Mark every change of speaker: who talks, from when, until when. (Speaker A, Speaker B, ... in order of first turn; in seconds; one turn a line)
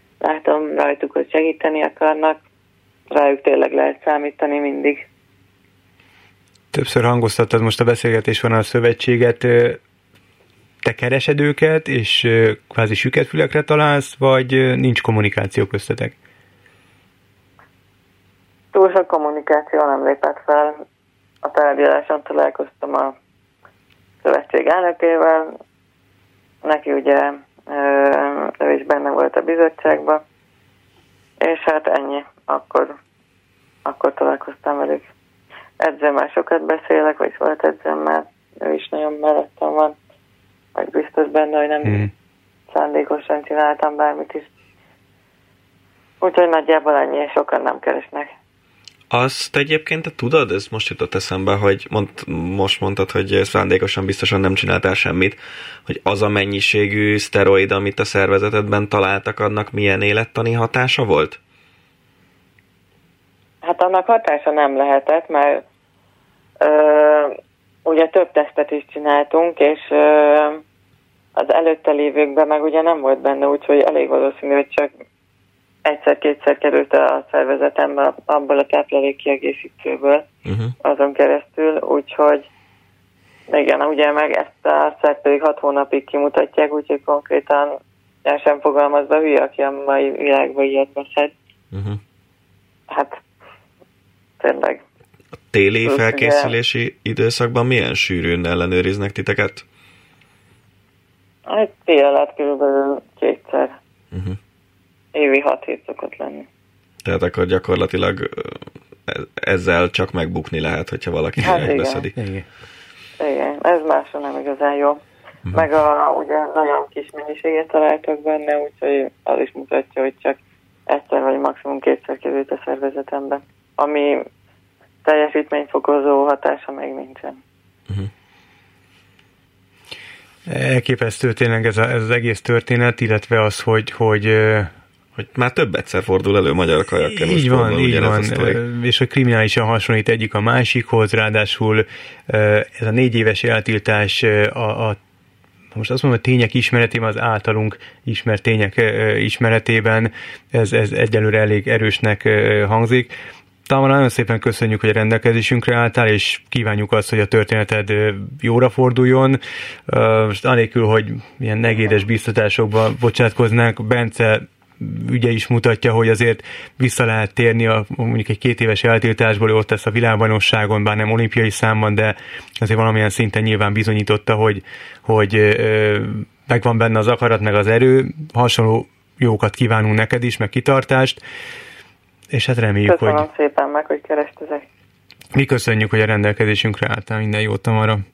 Speaker A: 0.2-2.4
Speaker A: 3.1-5.0
Speaker B: 6.7-9.8
Speaker B: 10.8-16.1
Speaker A: 18.7-20.8
Speaker A: 21.4-23.1
Speaker A: 24.2-25.5
Speaker A: 26.6-30.2
Speaker A: 31.4-33.0
Speaker A: 33.8-35.1
Speaker A: 35.8-39.9
Speaker A: 40.7-42.1
Speaker B: 41.8-42.1
Speaker A: 42.7-44.5
Speaker A: 46.2-48.3
Speaker C: 49.1-61.4
Speaker A: 63.6-65.6
Speaker A: 66.6-70.6
Speaker A: 71.3-74.9
Speaker A: 75.8-80.2
Speaker C: 80.5-80.7
Speaker A: 80.8-82.5
Speaker A: 83.5-91.3
Speaker C: 91.7-92.0
Speaker A: 92.9-93.2
Speaker A: 94.4-94.8
Speaker C: 95.5-99.6
Speaker A: 95.8-96.5
Speaker A: 101.5-103.8
Speaker C: 104.1-104.4
Speaker A: 105.1-106.5
Speaker C: 107.0-112.2
Speaker A: 111.4-112.0
Speaker B: 112.2-112.5
Speaker A: 113.2-115.0
Speaker A: 115.5-124.3
Speaker A: 125.0-127.4
Speaker B: 130.4-134.7
Speaker C: 135.2-138.6
Speaker B: 137.0-145.0
Speaker B: 145.7-153.1
Speaker B: 153.7-181.2
Speaker B: 182.3-183.2
Speaker A: 182.8-184.7
Speaker B: 185.3-188.0